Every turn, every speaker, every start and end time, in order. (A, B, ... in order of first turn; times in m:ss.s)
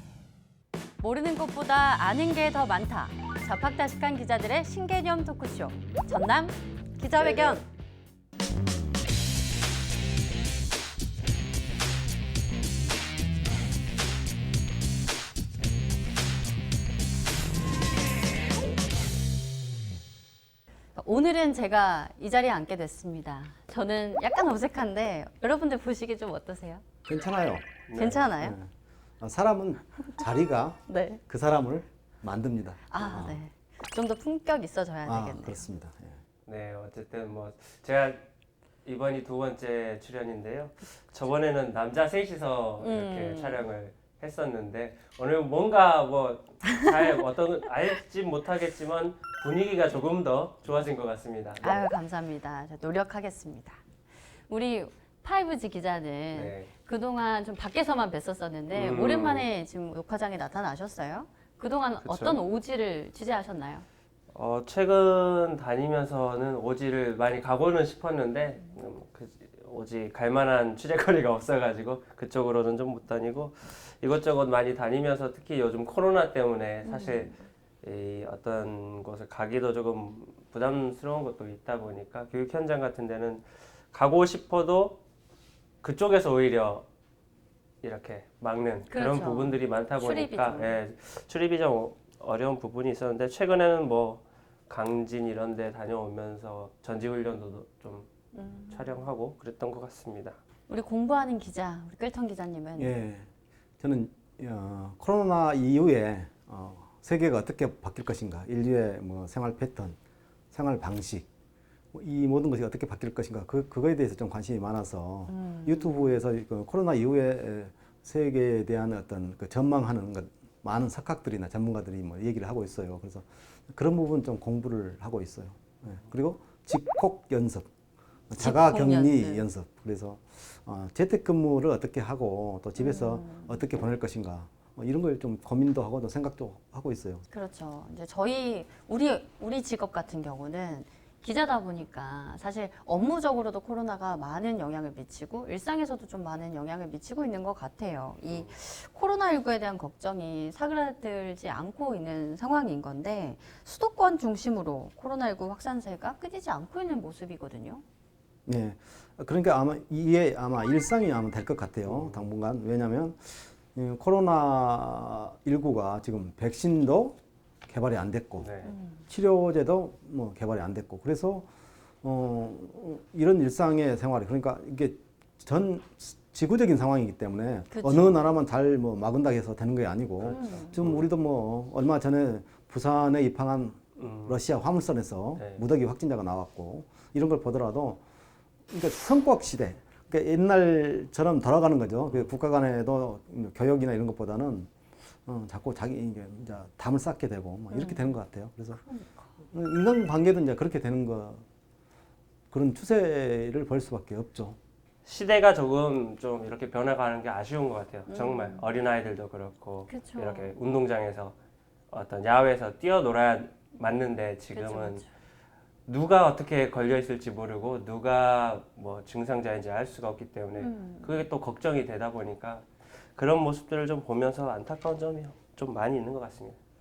0:01.0-0:07.6 A
0:07.2-0:07.5 B
0:20.9-0:26.8 A
0:27.0-0:27.8 C
0:27.9-0:28.3 B
0:27.9-0:28.6 A
0:28.3-0:33.4 C
0:30.9-0:31.2 A
0:32.9-0:35.6 A
0:35.0-0:36.2 C
0:36.4-0:38.2 B
0:38.8-0:51.8 B
0:42.8-0:43.6 A
0:51.6-0:53.8 A
0:54.5-1:03.8 A
0:56.3-0:56.7 B
0:58.7-0:59.5 B
1:02.0-1:02.4 B
1:04.3-1:25.0 B
1:16.8-1:17.4 A
1:25.8-1:26.8 B
1:27.8-1:38.1 B
1:28.9-1:30.8 A
1:38.3-1:38.9 A
1:38.7-1:40.4 B
1:40.7-1:42.9 A
1:42.8-1:43.3 C
1:43.8-1:50.0 C
1:50.5-1:51.3 C
1:51.9-2:07.7 C
1:55.3-1:56.1 A
2:08.3-2:17.2 C
2:08.4-2:09.4 A
2:12.8-2:13.6 A
2:17.3-2:37.8 A
2:38.4-2:51.5 C
2:41.8-2:42.3 B
2:48.4-2:48.7 B
2:48.7-2:49.0 A
2:52.0-3:08.0 C
2:57.7-2:58.3 A
3:00.2-3:01.1 B
3:00.3-3:00.8 A
3:04.0-3:04.4 B
3:05.4-3:05.6 B
3:08.7-3:14.7 C
3:15.2-3:18.8 C
3:17.7-3:18.1 A
3:18.8-3:19.3 A
3:19.4-3:21.4 C
3:22.5-3:24.6 C
3:25.0-3:31.4 B
3:28.1-3:28.6 A
3:29.9-3:30.5 A
3:31.9-3:35.0 B
3:34.5-3:35.1 A
3:35.9-3:46.6 B
3:40.6-3:41.2 A